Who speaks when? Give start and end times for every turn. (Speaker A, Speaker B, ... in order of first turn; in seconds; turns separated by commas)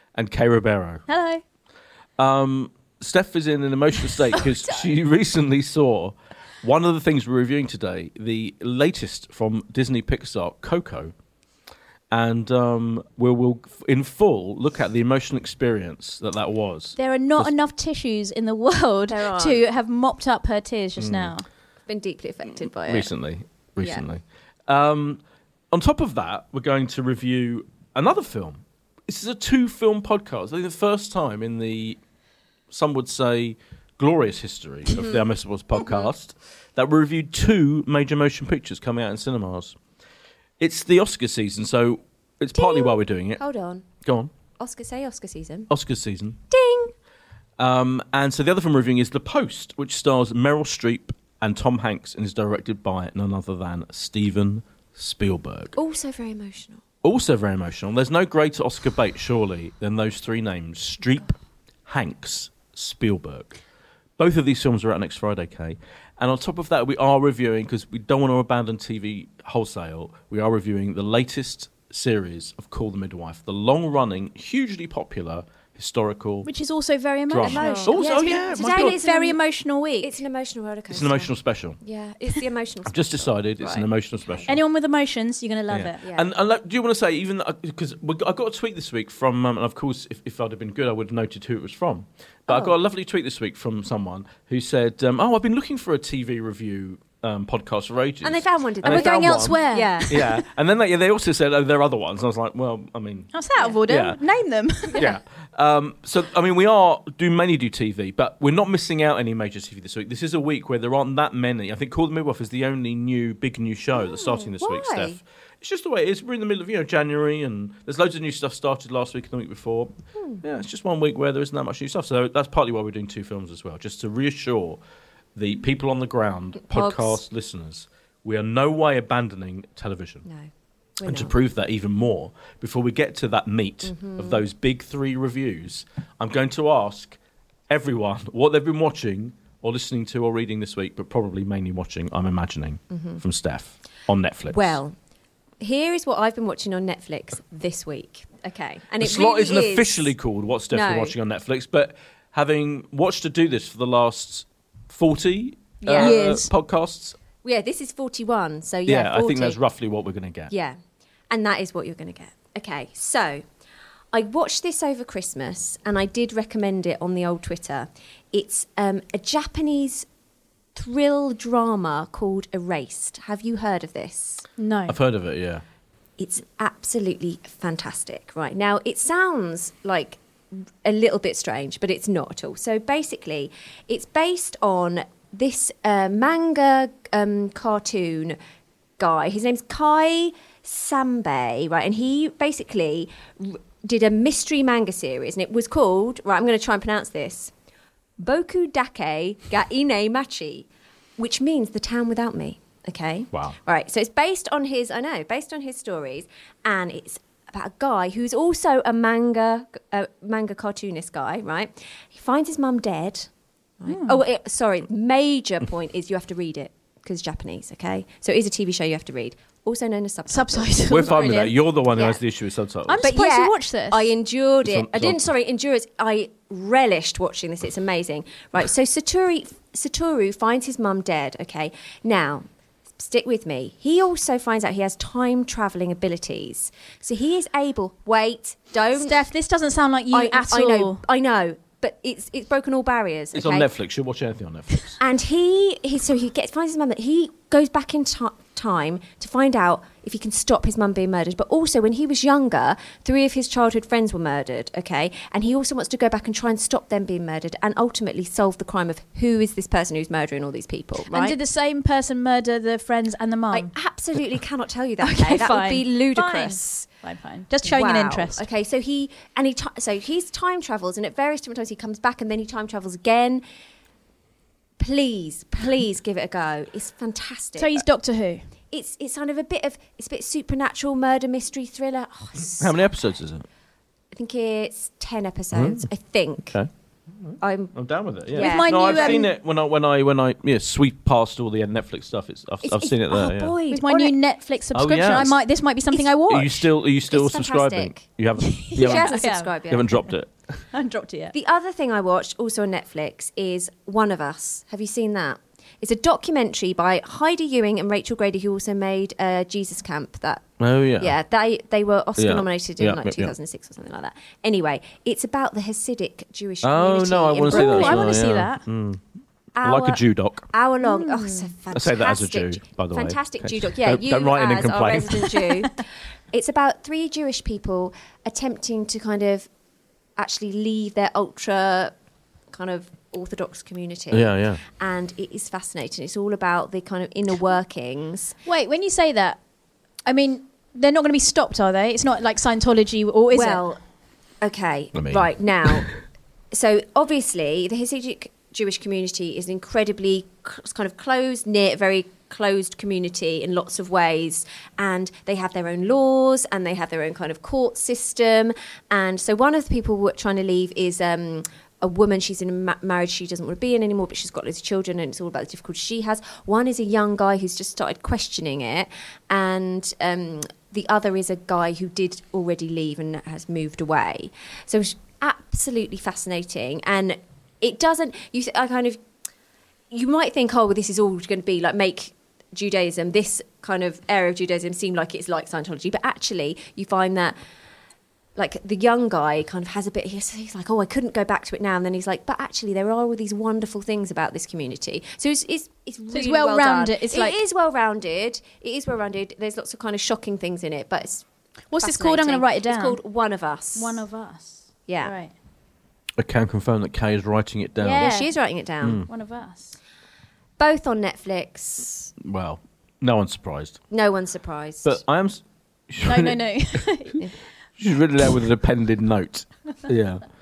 Speaker A: 0.1-1.1, Speaker B: 1.1-1.4, Speaker A: 2.2-11.1, Speaker A: 12.1-17.5, Speaker B: 17.0-21.4, Speaker C: 19.1-19.6, Speaker A: 21.0-21.3, Speaker C: 21.9-23.1, Speaker A: 22.9-32.0, Speaker C: 23.8-24.0, Speaker A: 32.7-39.8, Speaker C: 34.9-35.2, Speaker C: 35.8-36.1, Speaker A: 40.6-43.4, Speaker C: 42.5-43.9, Speaker A: 44.0-44.3, Speaker C: 44.6-45.7, Speaker A: 45.7-46.4, Speaker C: 46.5-46.9, Speaker A: 47.6-55.8, Speaker C: 55.8-56.8, Speaker A: 57.0-61.4, Speaker A: 61.9-63.5, Speaker A: 64.2-76.5, Speaker B: 76.5-80.1, Speaker A: 77.3-79.0, Speaker C: 77.4-79.4, Speaker C: 80.0-84.4, Speaker A: 80.9-81.8, Speaker A: 82.9-84.6, Speaker B: 84.5-86.0, Speaker A: 85.7-103.3, Speaker C: 86.0-86.3, Speaker C: 92.5-92.7, Speaker C: 98.2-100.2, Speaker B: 98.8-100.5, Speaker B: 103.3-105.0, Speaker A: 103.9-104.2, Speaker C: 104.9-105.2, Speaker A: 105.0-124.8, Speaker C: 114.0-115.2, Speaker A: 125.4-130.2, Speaker C: 126.7-127.2, Speaker C: 130.2-131.3, Speaker A: 131.0-137.2, Speaker C: 133.8-134.4, Speaker A: 137.7-144.8, Speaker C: 142.9-143.2, Speaker C: 144.5-145.0, Speaker C: 145.6-150.1, Speaker A: 149.0-157.2, Speaker C: 150.7-151.2, Speaker C: 155.8-156.2, Speaker B: 155.9-156.5, Speaker C: 157.4-159.6, Speaker A: 158.9-160.5, Speaker C: 160.5-160.8, Speaker C: 161.3-163.5, Speaker C: 164.1-170.1, Speaker C: 170.8-174.5, Speaker B: 174.6-175.0, Speaker A: 174.9-175.6, Speaker C: 176.2-188.4, Speaker C: 189.0-197.5, Speaker C: 198.2-221.2, Speaker B: 213.9-214.2, Speaker B: 220.3-221.6, Speaker A: 220.9-223.0, Speaker C: 221.9-222.2, Speaker B: 222.9-224.1, Speaker C: 223.0-232.4, Speaker A: 224.6-225.3, Speaker C: 233.0-239.3, Speaker B: 239.0-241.0, Speaker C: 240.1-243.7, Speaker A: 243.3-245.0, Speaker C: 245.0-261.4, Speaker B: 261.1-263.7, Speaker C: 263.5-266.9, Speaker B: 265.0-268.5, Speaker C: 267.6-273.4, Speaker C: 274.8-277.8, Speaker B: 277.6-278.4, Speaker C: 278.7-282.8, Speaker A: 282.6-283.5, Speaker C: 284.1-286.6, Speaker A: 285.5-285.9, Speaker A: 287.2-293.6, Speaker C: 287.4-287.7, Speaker C: 288.3-289.3, Speaker B: 288.3-289.3, Speaker C: 292.6-294.1, Speaker B: 293.7-296.6, Speaker A: 294.7-295.4, Speaker A: 296.3-300.3, Speaker C: 297.1-298.1, Speaker B: 298.4-299.5, Speaker C: 298.8-300.1, Speaker B: 300.7-301.3, Speaker C: 301.3-310.5, Speaker A: 310.6-311.1, Speaker C: 311.0-318.2, Speaker A: 312.2-313.3, Speaker A: 316.6-319.0, Speaker B: 317.5-318.6, Speaker C: 319.6-329.5, Speaker A: 319.6-320.5, Speaker B: 320.8-321.5, Speaker A: 321.7-325.7, Speaker C: 330.2-331.9, Speaker C: 332.5-338.4, Speaker A: 334.1-334.6, Speaker B: 338.5-339.4, Speaker B: 340.1-343.6, Speaker C: 343.3-343.8, Speaker C: 344.4-345.9, Speaker A: 344.9-345.9, Speaker C: 346.5-379.0, Speaker C: 379.9-387.4, Speaker C: 388.4-401.2, Speaker B: 396.1-397.4, Speaker B: 401.7-403.0, Speaker C: 401.8-404.0, Speaker B: 403.8-405.3, Speaker C: 404.9-405.1, Speaker A: 406.2-408.1, Speaker B: 407.8-408.4, Speaker C: 408.0-409.0, Speaker A: 408.8-409.1, Speaker B: 409.1-409.8, Speaker C: 410.6-412.1, Speaker A: 412.2-413.8, Speaker C: 413.9-415.0, Speaker A: 414.8-416.9, Speaker B: 416.0-417.3, Speaker A: 417.8-420.3